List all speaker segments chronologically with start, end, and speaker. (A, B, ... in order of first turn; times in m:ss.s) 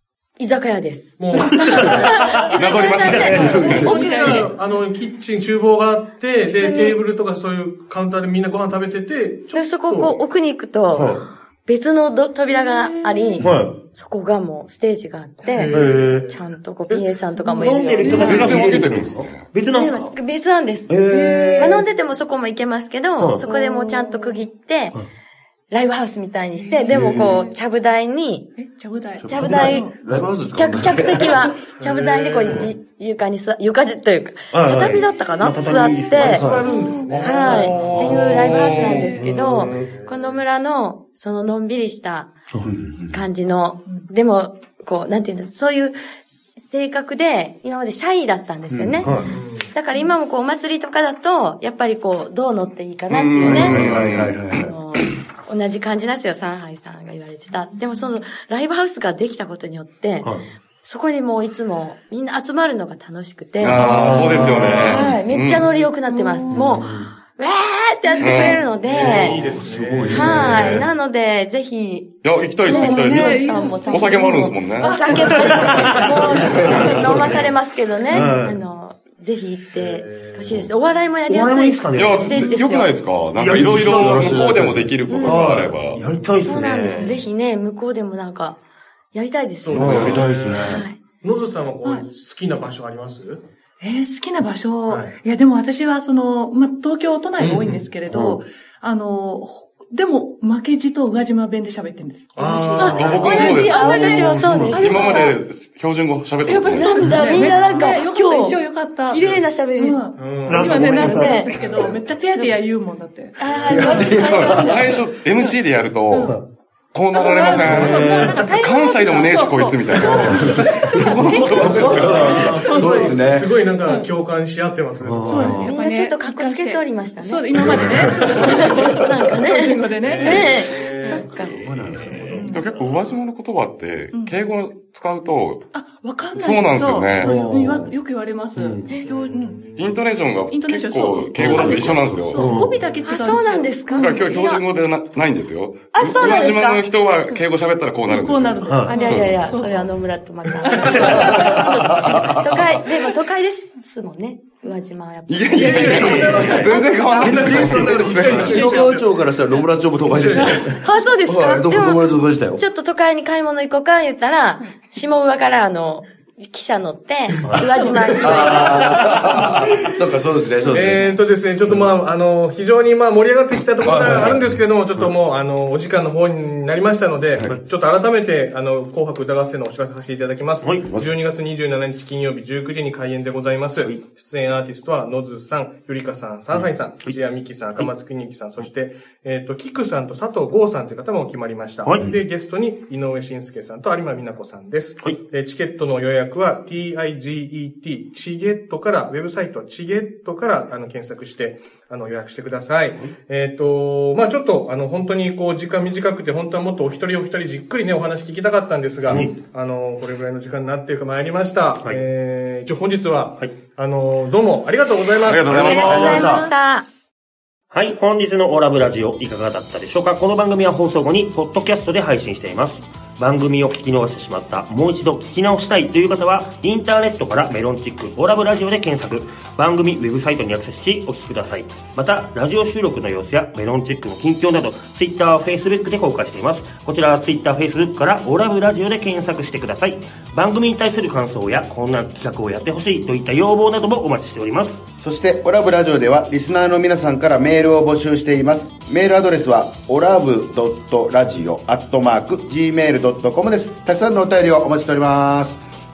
0:00.4-0:04.5 A
0:01.2-0:02.3 B
0:01.3-0:03.6 C
0:02.4-0:04.0 D
0:03.2-0:10.2 B
0:03.3-0:04.2 E
0:03.6-0:04.5 F
0:06.5-0:07.0 A
0:09.5-0:18.6 A
0:10.9-0:11.2 C
0:12.5-0:13.2 F
0:13.4-0:13.8 C
0:15.4-0:17.1 B
0:15.7-0:16.2 C
0:17.3-0:18.7 F
0:17.6-0:20.1 C
0:18.1-0:19.5 D
0:19.7-0:25.0 A
0:20.9-0:21.9 C
0:21.4-0:21.8 F
0:23.2-0:23.4 C
0:23.4-0:24.4 F
0:25.7-0:28.6 A
0:26.6-0:27.6 F
0:26.9-0:27.4 C
0:28.6-0:30.0 F
0:29.2-0:31.6 E
0:29.3-0:36.6 A
0:31.6-0:32.8 B
0:32.4-0:32.7 C
0:34.5-0:39.9 C
0:35.6-0:40.4 B
0:36.6-0:37.5 F
0:37.2-0:42.3 A
0:38.7-0:39.4 F
0:42.6-0:43.2 E
0:43.1-0:46.0 A
0:46.6-1:00.3 A
0:48.7-0:49.1 E
0:49.0-0:49.4 C
0:49.1-0:50.1 F
0:49.2-0:49.8 B
0:53.1-0:54.5 D
0:53.4-0:54.7 E
0:57.5-0:58.2 F
1:00.2-1:00.5 C
1:00.8-1:09.5 A
1:03.6-1:05.6 D
1:03.7-1:05.2 C
1:03.7-1:05.1 F
1:06.0-1:06.8 F
1:06.5-1:07.1 C
1:08.0-1:08.6 F
1:08.2-1:08.6 D
1:08.8-1:10.8 B
1:09.0-1:10.9 C
1:09.9-1:10.7 E
1:10.1-1:22.9 A
1:12.2-1:16.0 D
1:12.6-1:16.6 F
1:15.3-1:17.4 C
1:15.9-1:16.2 B
1:16.3-1:17.5 E
1:18.1-1:18.6 C
1:19.7-1:20.6 B
1:21.3-1:22.6 C
1:22.0-1:26.0 D
1:23.4-1:24.4 C
1:23.5-1:25.0 E
1:25.1-1:25.5 A
1:25.2-1:27.2 C
1:26.4-1:28.6 A
1:29.1-1:31.0 A
1:29.6-1:33.4 B
1:29.7-1:30.9 E
1:29.8-1:30.2 C
1:33.8-1:45.4 F
1:34.9-1:35.2 B
1:37.4-1:37.9 B
1:42.4-1:43.4 B
1:42.8-1:45.4 A
1:42.9-1:47.4 D
1:44.2-1:44.8 C
1:46.4-1:54.7 F
1:46.6-1:50.1 A
1:49.2-1:49.5 B
1:50.2-1:51.1 B
1:50.5-1:51.5 C
1:50.6-1:51.6 A
1:52.2-1:52.6 A
1:53.4-1:55.0 A
1:53.6-1:54.8 E
1:54.0-1:56.4 D
1:56.1-1:56.4 F
1:56.2-1:56.4 C
1:56.9-2:02.4 D
1:57.1-2:00.3 A
1:57.1-2:03.2 F
1:57.6-1:58.4 C
2:00.1-2:00.8 E
2:00.1-2:00.6 C
2:00.8-2:01.3 A
2:01.6-2:02.2 C
2:01.6-2:03.5 E
2:02.0-2:05.6 B
2:03.8-2:04.1 F
2:05.0-2:05.7 C
2:05.2-2:11.3 F
2:05.6-2:11.6 A
2:08.3-2:08.7 B
2:10.0-2:13.0 B
2:11.4-2:12.5 E
2:12.2-2:12.7 F
2:12.5-2:15.6 D
2:15.7-2:19.6 F
2:16.4-2:17.4 D
2:17.2-2:18.0 C
2:18.6-2:18.9 C
2:19.0-2:20.0 B
2:19.8-2:22.6 D
2:20.5-2:24.5 F
2:21.3-2:22.4 E
2:22.3-2:22.8 C
2:22.6-2:23.3 B
2:23.0-2:24.6 A
2:23.9-2:29.6 D
2:26.0-2:27.4 A
2:26.2-2:26.5 F
2:28.0-2:29.9 F
2:28.6-2:28.9 C
2:28.9-2:37.4 A
2:30.6-2:32.2 F
2:31.2-2:32.7 E
2:35.3-2:38.8 D
2:35.6-2:36.3 F
2:35.6-2:39.3 B
2:36.0-2:36.6 C
2:37.2-2:42.6 E
2:40.0-2:40.8 B
2:40.6-2:49.2 A
2:47.5-2:51.1 E
2:47.6-2:48.7 F
2:50.7-3:36.4 B
2:53.8-2:54.4 E
3:00.6-3:00.9 C
3:00.8-3:01.1 E
3:06.5-3:07.2 C
3:11.8-3:12.1 C
3:29.1-3:29.4 C
3:35.2-3:36.5 D
3:35.6-3:36.9 A
3:35.8-3:36.5 E
3:37.7-4:04.8 C
4:05.0-4:15.6 E